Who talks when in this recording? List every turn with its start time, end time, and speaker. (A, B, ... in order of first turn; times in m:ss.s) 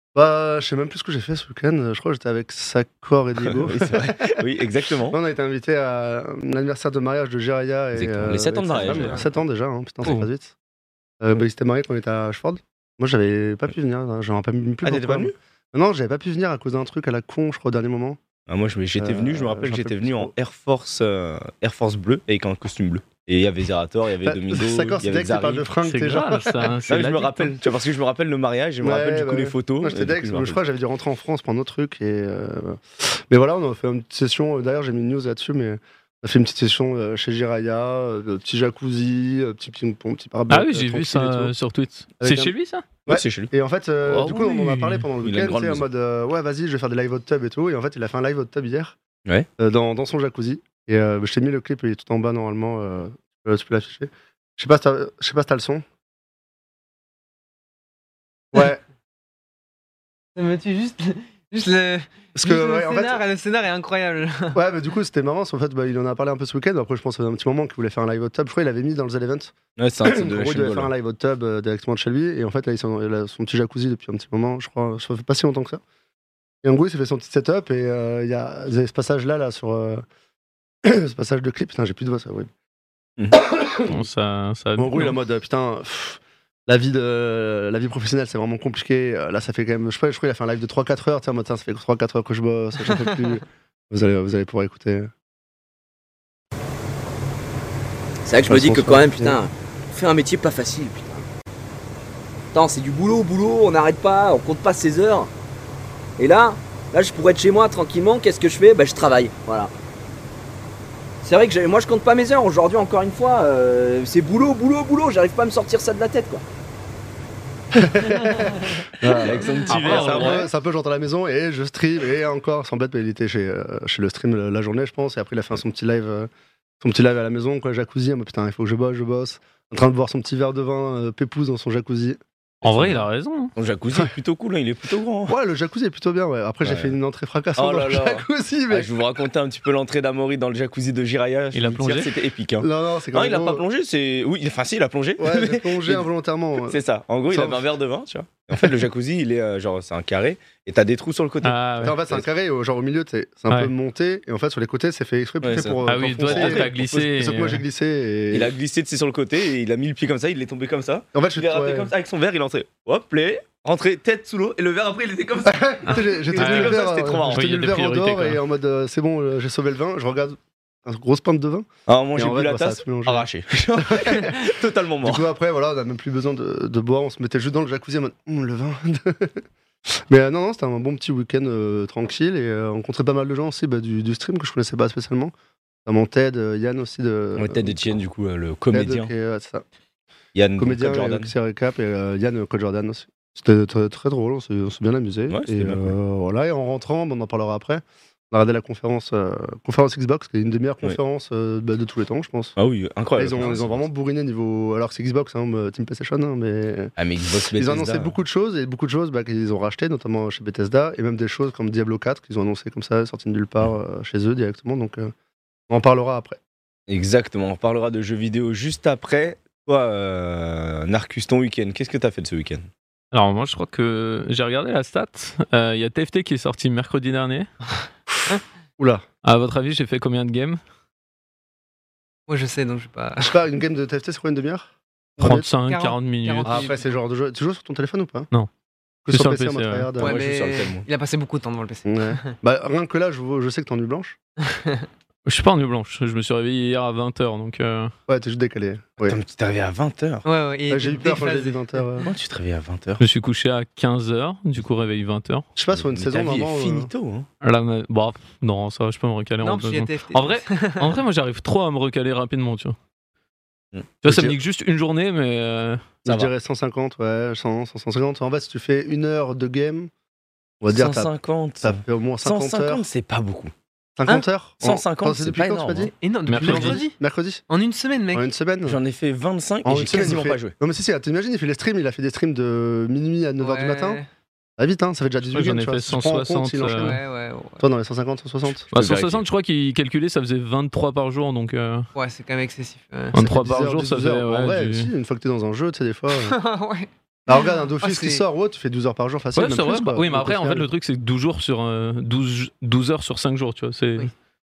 0:00.2-0:04.4 A
0:03.7-0:05.2 B
0:05.1-0:10.5 A
0:07.9-0:09.2 B
0:11.2-0:18.2 A
0:14.8-0:15.4 B
0:18.5-0:25.7 B
0:19.0-0:20.3 A
0:24.2-0:26.7 A
0:25.8-0:27.5 C
0:26.9-0:30.6 B
0:28.8-0:41.5 A
0:40.5-0:42.9 C
0:42.2-0:42.5 A
0:43.1-0:43.5 B
0:43.1-0:49.0 A
0:44.0-0:45.0 C
0:45.2-0:45.9 B
0:49.6-0:55.8 A
0:58.5-0:58.8 A
1:00.4-1:04.6 D
1:02.4-1:03.2 A
1:04.6-1:15.8 A
1:09.8-1:10.9 B
1:16.6-1:20.0 A
1:20.8-1:22.5 A
1:23.4-1:24.0 A
1:23.9-1:25.2 C
1:24.8-1:35.1 A
1:38.2-1:41.3 E
1:38.5-1:39.4 A
1:42.5-1:45.3 E
1:46.2-1:49.7 E
1:51.2-1:56.4 E
1:57.8-2:06.3 A
1:59.1-2:00.5 B
1:59.7-2:00.4 C
2:06.8-2:12.2 A
2:12.6-2:13.5 C
2:12.7-2:13.0 B
2:13.6-2:15.4 B
2:15.3-2:18.9 A
2:16.6-2:16.9 B
2:17.6-2:26.1 B
2:21.5-2:22.2 C
2:22.6-2:23.6 A
2:25.2-2:26.8 A
2:26.6-2:31.6 B
2:27.3-2:27.7 A
2:31.4-2:32.0 C
2:31.8-2:38.5 A
2:35.4-2:37.0 B
2:35.9-2:37.6 C
2:38.3-2:47.6 B
2:41.1-2:41.9 A
2:45.5-2:53.3 A
2:46.4-2:46.7 C
2:47.3-2:48.4 C
2:51.9-2:55.3 B
2:53.8-2:54.5 A
2:55.0-2:59.4 A
3:00.1-3:05.3 A
3:05.8-3:08.0 A
3:07.4-3:09.1 B
3:08.7-3:09.6 A
3:10.3-3:11.3 B
3:10.6-3:22.6 A
3:15.3-3:16.0 B
3:22.6-3:23.9 B
3:23.2-3:27.0 A
3:27.0-3:28.2 B
3:27.5-3:35.1 A
3:35.7-3:36.4 A
3:36.9-3:42.7 B
3:43.1-3:47.5 C
3:49.2-3:50.6 C
3:52.3-3:53.4 D
3:53.2-3:55.5 A
3:55.2-3:56.7 C
3:55.7-3:57.0 D
3:56.4-3:58.3 A
3:59.0-4:00.1 A
3:59.1-3:59.9 C
4:00.0-4:02.3 D
4:00.0-4:00.9 B
4:01.9-4:04.2 A
4:04.5-4:04.8 D
4:05.3-4:07.9 C
4:08.1-4:09.2 A
4:09.0-4:10.2 B
4:10.2-4:11.8 D
4:10.7-4:12.1 A
4:12.0-4:13.0 B
4:13.0-4:15.5 C
4:15.6-4:16.9 A
4:15.7-4:17.3 B
4:17.4-4:22.8 C
4:19.4-4:21.0 D
4:24.0-4:25.9 C
4:24.0-4:24.4 A
4:26.0-4:29.9 A
4:26.1-4:26.3 B
4:30.6-4:32.8 A
4:30.7-4:33.5 B
4:34.0-4:37.4 A
4:34.6-4:35.9 B
4:36.0-4:37.0 D
4:36.3-4:36.8 C
4:37.5-4:38.3 D
4:38.1-4:38.8 A
4:38.7-4:40.5 B
4:39.6-4:44.0 A
4:43.4-4:44.1 D
4:44.6-4:47.0 A
4:45.3-4:47.0 C
4:46.7-4:47.6 D
4:47.6-4:48.7 A
4:48.7-4:51.9 C
4:48.7-4:49.2 B
4:52.0-4:53.1 D
4:53.1-4:54.9 C
4:53.2-4:56.4 A
4:56.2-4:58.2 D
4:57.3-5:00.7 A
4:59.4-5:04.1 C